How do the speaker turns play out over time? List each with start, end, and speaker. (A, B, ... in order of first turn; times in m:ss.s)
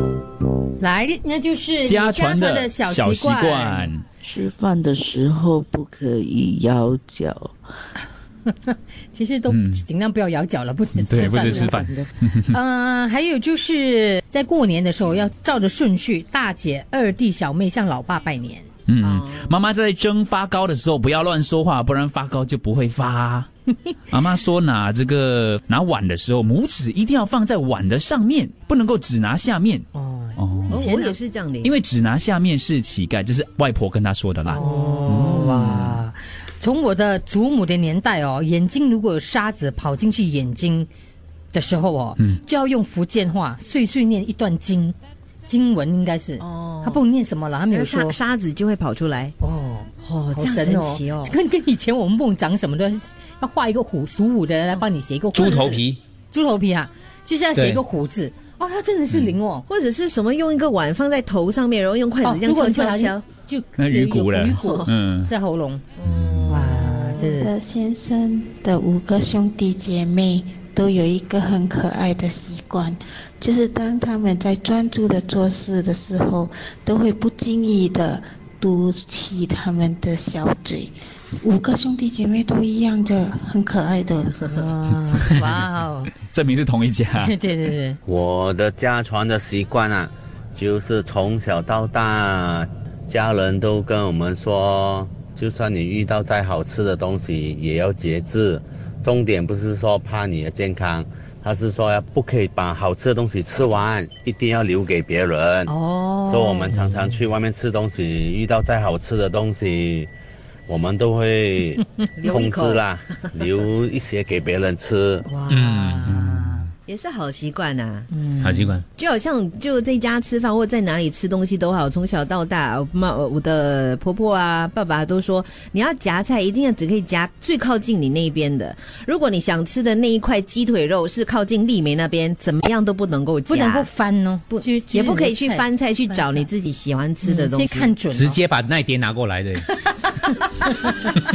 0:00.8-0:03.9 A
0:01.8-0:04.0 B
0:04.2-0:07.5 C
0:08.5-0:11.9 A
0:09.5-0:09.8 B
0:11.0-0:12.6 B
0:11.4-0:12.1 C
0:12.5-0:18.7 A
0:18.9-0:23.5 B
0:19.0-0:19.5 D
0:24.1-0:29.8 B
0:29.9-0:31.2 A
0:30.4-0:30.8 B
0:30.7-0:31.8 D
0:31.6-0:36.0 B
0:34.5-0:40.9 A
0:34.6-0:35.6 D
0:41.5-0:45.0 A
0:45.5-0:48.2 A
0:46.4-0:47.0 D
0:47.7-0:49.3 D
0:49.4-0:59.7 A
0:50.0-0:51.4 D
0:55.4-0:55.8 B
0:55.4-0:55.7 D
0:55.6-0:56.0 E
0:57.6-0:57.8 E
0:59.7-1:03.2 D
1:02.2-1:05.8 A
1:03.8-1:05.3 B
1:04.6-1:04.9 D
1:06.0-1:07.4 D
1:06.1-1:06.5 B
1:06.5-1:07.5 A
1:07.4-1:24.4 F
1:24.5-1:26.2 A
1:26.3-1:27.3 B
1:27.2-1:28.0 A
1:28.0-1:45.7 G
1:45.7-1:47.1 A
1:46.3-1:50.1 G
1:50.7-1:55.3 G
1:52.2-1:53.3 D
1:55.3-1:56.7 A
1:55.5-1:56.2 E
1:56.1-1:56.6 B
1:56.9-1:58.1 D
1:58.1-1:58.8 A
1:58.4-1:58.8 E
1:59.0-2:13.9 D
2:13.5-2:16.5 A
2:14.5-2:18.0 D
2:17.2-2:18.4 A
2:18.1-2:19.6 E
2:20.8-2:21.1 D